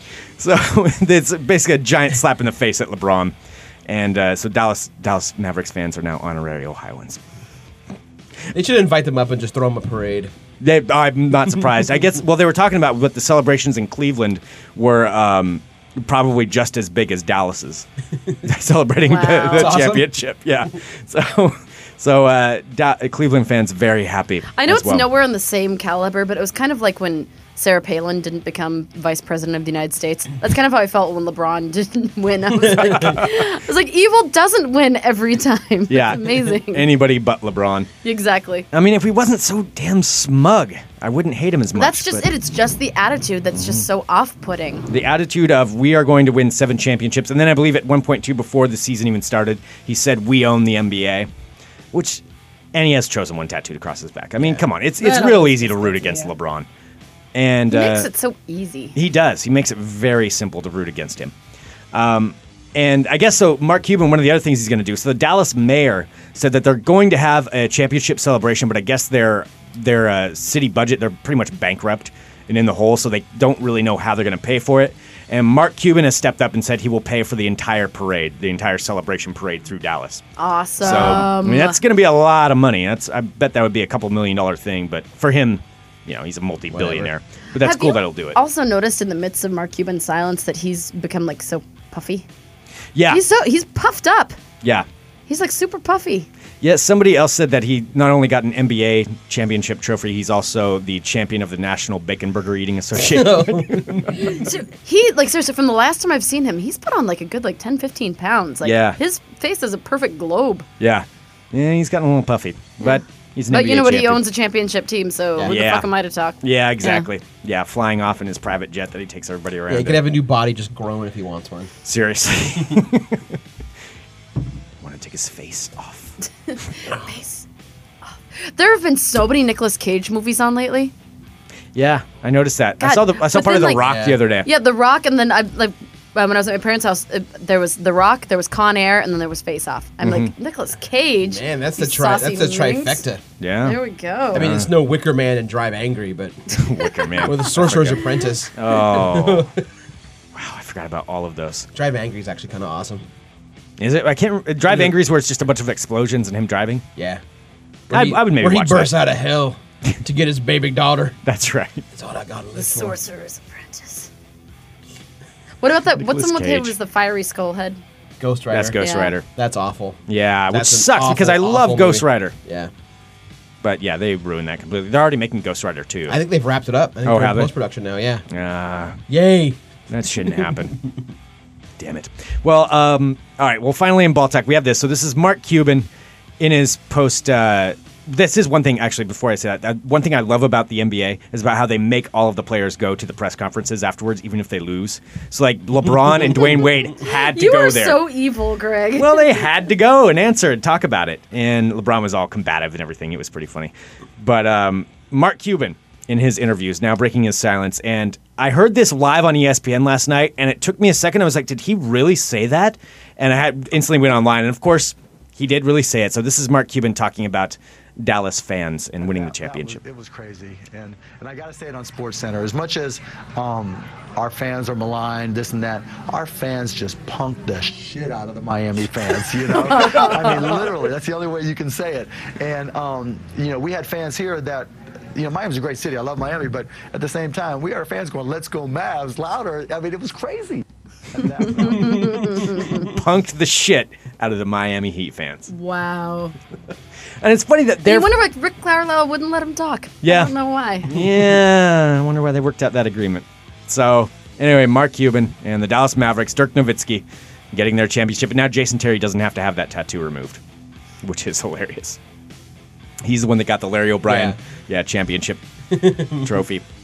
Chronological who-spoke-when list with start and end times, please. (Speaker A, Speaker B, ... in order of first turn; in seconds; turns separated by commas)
Speaker A: 0.4-3.3, Speaker A: 3.9-7.2, Speaker B: 8.5-10.3, Speaker A: 10.6-17.9, Speaker A: 18.4-25.1, Speaker C: 19.0-19.7, Speaker B: 19.5-20.1, Speaker C: 24.5-36.9, Speaker A: 32.6-33.4, Speaker A: 35.9-37.9, Speaker C: 38.0-38.7, Speaker A: 38.7-42.3, Speaker C: 41.7-44.9, Speaker A: 43.5-43.8, Speaker A: 44.9-51.3, Speaker A: 51.9-52.2, Speaker A: 52.7-56.7, Speaker C: 55.0-56.3, Speaker A: 57.3-58.1, Speaker C: 57.7-59.0, Speaker A: 58.9-61.3, Speaker A: 61.9-80.2, Speaker C: 80.4-81.8, Speaker A: 80.8-88.4, Speaker B: 80.9-81.2, Speaker B: 86.7-87.1, Speaker C: 87.6-92.2, Speaker A: 92.9-93.2, Speaker C: 93.1-94.4, Speaker A: 94.6-94.9, Speaker C: 95.3-96.3, Speaker A: 96.6-104.2, Speaker B: 103.0-104.1, Speaker C: 104.1-110.7, Speaker A: 108.6-109.0, Speaker A: 110.8-114.2, Speaker C: 112.8-117.1, Speaker A: 115.4-115.9, Speaker A: 116.4-120.0, Speaker B: 119.7-121.7, Speaker A: 121.8-123.3, Speaker A: 124.8-126.1, Speaker C: 126.5-127.4, Speaker C: 128.3-130.9, Speaker A: 131.7-134.5, Speaker C: 132.8-133.8, Speaker B: 133.8-134.2, Speaker C: 134.4-143.0, Speaker A: 140.0-140.3, Speaker B: 141.2-143.2, Speaker A: 143.4-143.8, Speaker C: 143.6-144.5, Speaker A: 144.3-144.7, Speaker B: 144.3-146.4, Speaker A: 146.5-149.5, Speaker C: 146.7-147.3, Speaker B: 147.2-149.6, Speaker A: 150.3-151.7, Speaker B: 151.7-153.0, Speaker A: 153.8-156.8, Speaker B: 157.9-161.2, Speaker A: 157.9-159.0, Speaker A: 161.2-161.8, Speaker B: 161.9-163.0, Speaker C: 162.5-164.1, Speaker C: 165.6-167.8, Speaker A: 165.9-166.7, Speaker B: 168.2-168.8, Speaker A: 168.5-169.2, Speaker C: 168.8-169.1, Speaker B: 169.3-170.0, Speaker A: 170.1-172.3, Speaker B: 170.5-172.7, Speaker A: 173.6-176.2, Speaker B: 176.1-178.2, Speaker A: 177.0-177.5, Speaker A: 178.3-179.0, Speaker B: 179.1-179.6, Speaker A: 179.9-180.8, Speaker A: 181.8-185.9, Speaker A: 186.4-198.0, Speaker C: 196.8-199.5, Speaker A: 198.9-219.8, Speaker D: 219.1-242.2, Speaker C: 229.7-230.5, Speaker C: 241.4-242.9, Speaker B: 241.8-242.5, Speaker A: 242.6-245.5, Speaker C: 245.5-246.3, Speaker A: 247.2-248.1, Speaker C: 247.8-250.9, Speaker A: 250.0-250.3, Speaker A: 250.8-260.4, Speaker A: 261.0-262.0, Speaker A: 263.0-265.4, Speaker B: 264.1-264.4, Speaker B: 265.7-266.2, Speaker A: 266.1-266.6